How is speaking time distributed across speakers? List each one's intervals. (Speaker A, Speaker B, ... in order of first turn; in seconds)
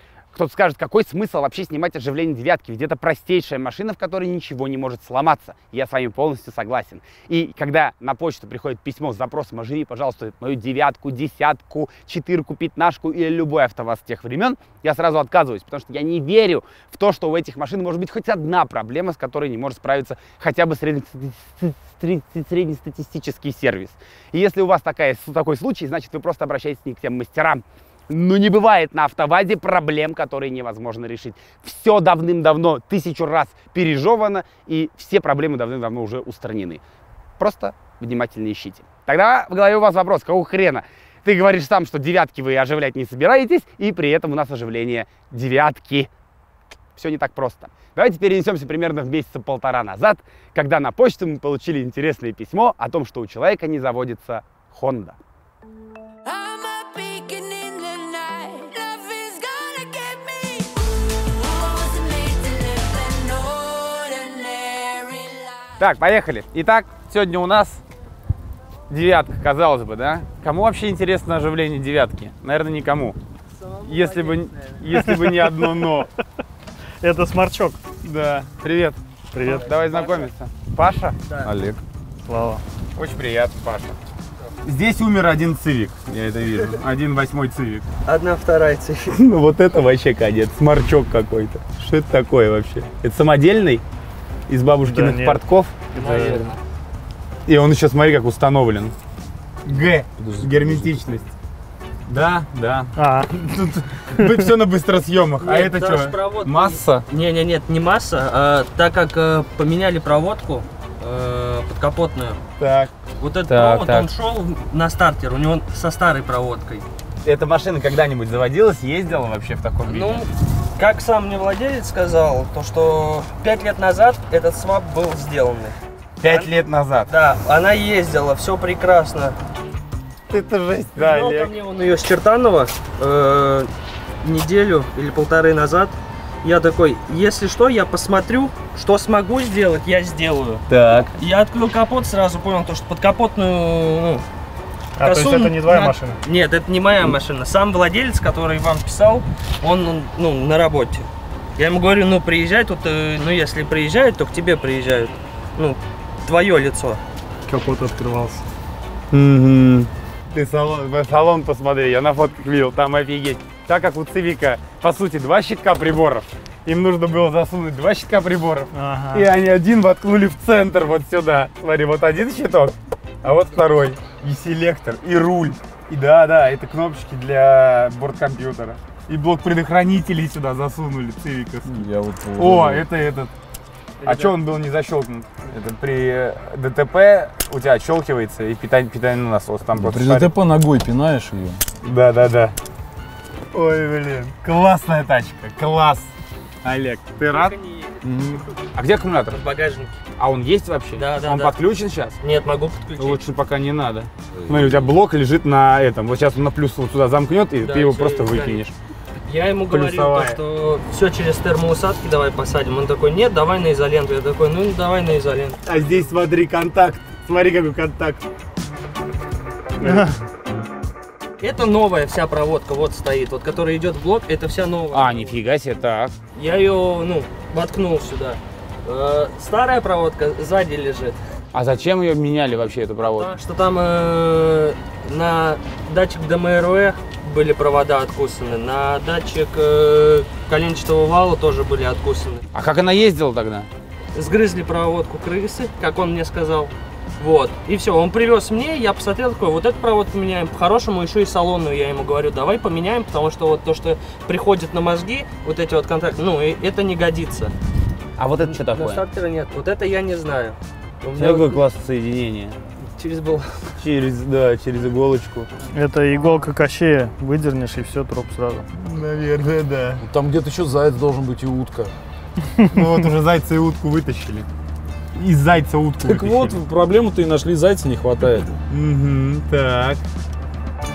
Speaker A: 0.3-36.8, 37.4-46.1, 47.0-55.2, 65.7-67.8, 68.9-73.2, 73.8-76.1, 78.0-81.2, 83.0-84.0, 84.6-87.9, 89.1-93.8, 94.5-96.3, 97.5-99.0, 99.7-101.3, 102.1-107.0, 112.6-112.9, 113.5-114.1, 117.2-120.3, 126.2-127.1, 130.3-131.5, 140.7-141.1, 159.1-181.8, 182.4-183.3, 184.0-190.3, 191.8-192.6, 193.5-196.1, 196.6-197.5, 198.8-199.4, 200.2-202.2, 203.0-208.7, 209.7-210.4, 215.7-218.2, 219.8-220.1, 224.9-226.2, 231.5-233.3, 242.5-243.7, 258.2-259.0, 261.2-262.6, 263.8-265.5, 268.8-270.0, 272.7-274.5, 275.1-276.6, 278.7-280.0
Speaker B: 56.3-60.6, 61.8-65.4, 73.6-74.8, 79.5-80.3, 88.0-89.2, 95.9-96.6, 105.4-112.4, 113.2-116.9, 119.9-125.8, 127.1-129.4, 131.0-133.7, 134.2-140.6, 141.2-144.2, 145.0-157.0, 197.3-198.0, 199.3-200.0, 200.9-201.6, 202.2-203.2, 207.6-208.6, 209.3-215.6, 221.4-225.4, 226.3-231.2, 233.0-242.4, 244.1-257.5, 258.5-261.6, 262.9-263.6
Speaker C: 75.0-75.7, 77.0-77.8, 79.3-79.7, 82.2-82.6, 94.9-95.4, 96.0-96.5, 103.0-103.3, 145.0-146.2, 157.5-158.4, 168.8-169.3, 219.8-220.1, 265.7-268.7
Speaker D: 81.4-81.8, 100.2-101.1, 181.7-182.9, 189.8-191.6, 198.0-198.4, 204.3-204.9, 270.0-271.9, 276.0-278.5